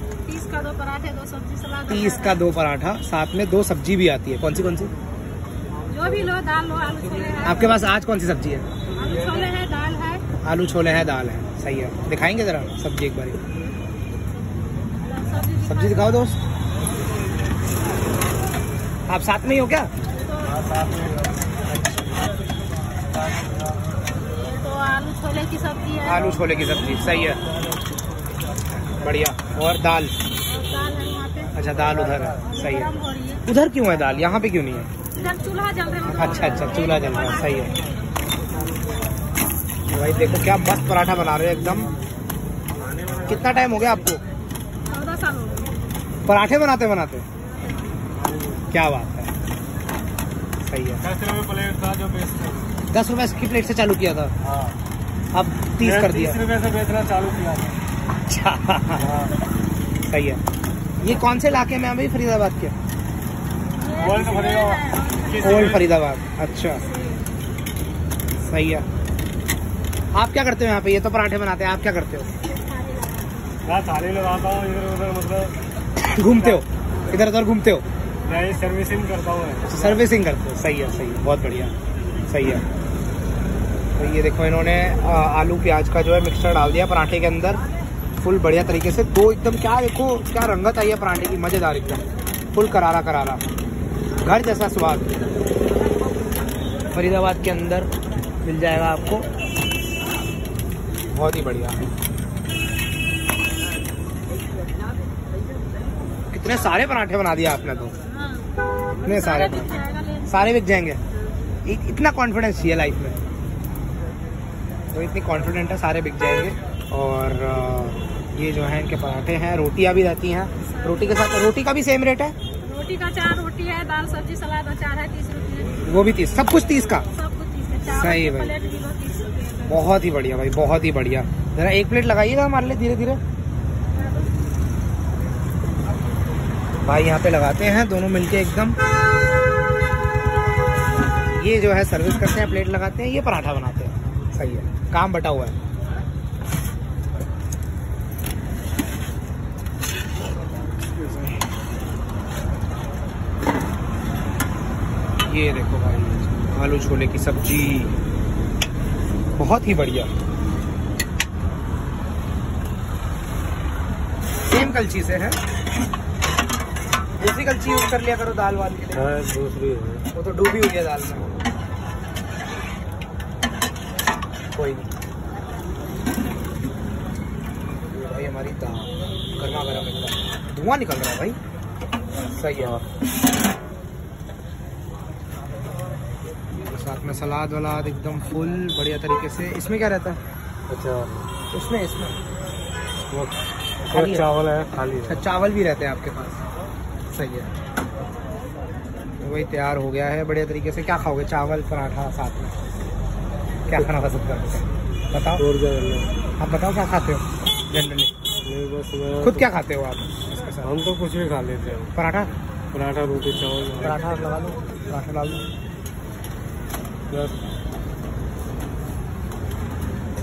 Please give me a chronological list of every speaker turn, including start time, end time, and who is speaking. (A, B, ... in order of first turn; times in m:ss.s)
0:00.2-0:02.4 A
0:01.9-0:04.9 B
0:05.9-0:07.9 A
0:07.4-0:08.7 B
0:09.0-0:10.2 A
0:10.4-0:13.4 B
0:15.0-0:16.3 A
0:15.6-0:16.4 B
0:19.1-0:19.9 B
0:20.2-0:20.8 A
0:21.7-0:22.0 B
0:24.4-0:26.3 A
0:26.0-0:27.4 B
0:29.0-0:30.1 B
0:30.5-0:31.5 A
0:31.6-0:32.9 B
0:32.4-0:33.4 A
0:33.5-0:34.9 B
0:35.2-0:37.9 A
0:36.1-0:37.7 B
0:39.9-0:41.9 B
0:42.8-0:43.7 C
0:43.3-0:44.2 B
0:44.8-0:45.7 A
0:46.3-0:47.2 B
0:48.2-0:48.7 C
0:48.7-0:49.3 B
0:50.6-0:51.0 B
0:51.0-0:52.7 C
0:52.9-0:54.3 B
0:54.4-0:54.8 C
0:55.3-0:56.4 B
0:55.8-0:57.8 C
0:58.1-0:59.1 B
0:59.0-0:59.4 C
1:00.1-1:00.4 B
1:01.0-1:02.8 B
1:03.8-1:05.8 A
1:04.0-1:05.9 C
1:05.4-1:06.8 B
1:06.8-1:07.3 A
1:08.4-1:08.9 B
1:10.1-1:12.3 B
1:12.4-1:13.5 A
1:13.6-1:15.6 C
1:16.0-1:17.8 B
1:16.2-1:16.7 C
1:18.2-1:20.0 C
1:19.7-1:21.7 B
1:22.3-1:22.6 B
1:24.0-1:27.6 B
1:28.2-1:33.4 B
1:34.2-1:35.1 B
1:36.9-1:37.9 B
1:38.4-1:39.3 B
1:41.1-1:41.8 B
1:46.3-1:48.0 B
1:48.1-1:50.6 A
1:49.0-1:49.7 B
1:50.3-1:51.0 B
1:51.6-1:53.2 B
1:54.9-2:02.4 B
2:00.6-2:01.4 A
2:02.6-2:09.8 A
2:05.8-2:07.0 B
2:07.9-2:08.5 B
2:09.7-2:13.2 B
2:16.8-2:18.8 B
2:21.2-2:25.6 B
2:30.8-2:31.4 B
2:35.3-2:38.0 B
2:39.4-2:40.1 B
2:44.5-2:45.4 B
2:47.2-2:49.1 B
2:48.9-2:50.1 C
2:50.1-2:51.4 B
2:54.5-2:54.9 B
2:57.9-3:01.4 B
3:02.3-3:02.8 B
3:06.7-3:10.2 B
3:10.7-3:11.3 C
3:11.5-3:12.2 B
3:13.9-3:14.3 B
3:13.9-3:15.2 C
3:15.1-3:16.4 B
3:17.1-3:17.5 B
3:19.2-3:22.5 B
3:23.7-3:25.4 B
3:25.4-3:26.1 C
3:26.4-3:28.1 B
3:28.4-3:29.5 C
3:29.2-3:30.7 B
3:30.6-3:31.9 C
3:32.0-3:32.3 B
3:32.7-3:34.0 C
3:33.8-3:35.5 B
3:37.1-3:37.4 C